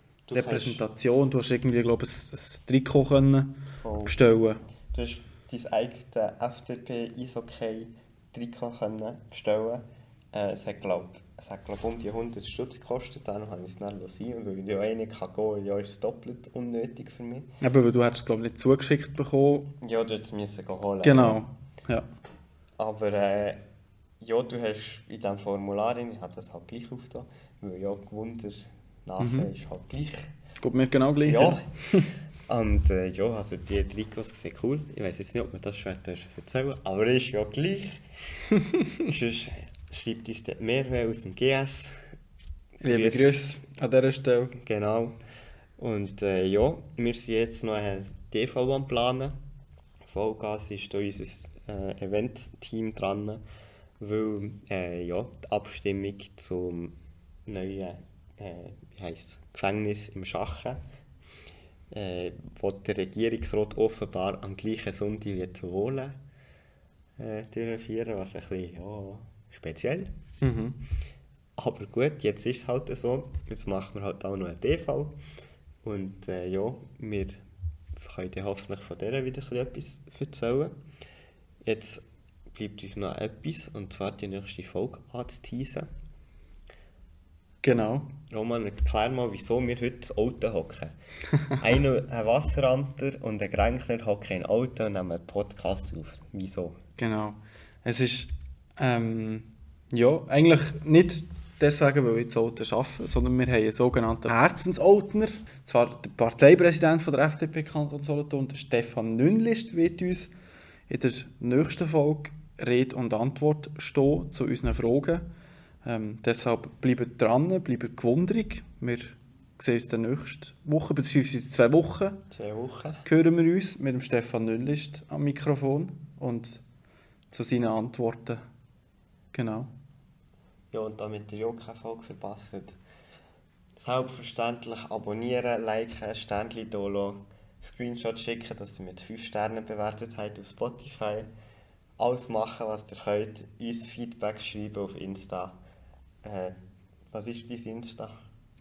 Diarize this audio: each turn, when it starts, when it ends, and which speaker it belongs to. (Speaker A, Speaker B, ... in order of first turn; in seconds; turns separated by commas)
Speaker A: 0.3-0.8, Speaker B: 0.3-4.6, Speaker A: 3.8-4.2, Speaker A: 4.9-17.5, Speaker B: 17.6-19.7, Speaker A: 19.8-21.4, Speaker B: 21.0-22.1, Speaker A: 22.8-23.6, Speaker A: 24.2-30.3, Speaker B: 29.2-29.5, Speaker B: 30.6-32.1, Speaker A: 31.2-38.1, Speaker A: 39.0-42.0, Speaker A: 42.8-43.4, Speaker B: 42.8-44.6, Speaker A: 44.6-45.2, Speaker A: 45.8-49.4, Speaker A: 50.0-53.4, Speaker A: 54.0-60.8, Speaker A: 61.9-66.2, Speaker A: 67.2-70.2, Speaker B: 70.4-70.8, Speaker A: 71.6-75.2, Speaker A: 75.8-77.4, Speaker A: 77.9-80.8, Speaker A: 81.6-85.9, Speaker B: 87.6-88.1, Speaker A: 88.3-90.9, Speaker A: 91.6-96.8, Speaker B: 97.0-110.3, Speaker B: 110.9-115.3, Speaker B: 115.8-122.2, Speaker A: 122.3-123.0, Speaker B: 123.0-126.6, Speaker B: 127.3-128.4, Speaker B: 129.3-129.7, Speaker A: 130.7-132.8, Speaker A: 133.8-141.3, Speaker A: 142.0-145.6, Speaker A: 146.2-146.6, Speaker A: 147.1-148.2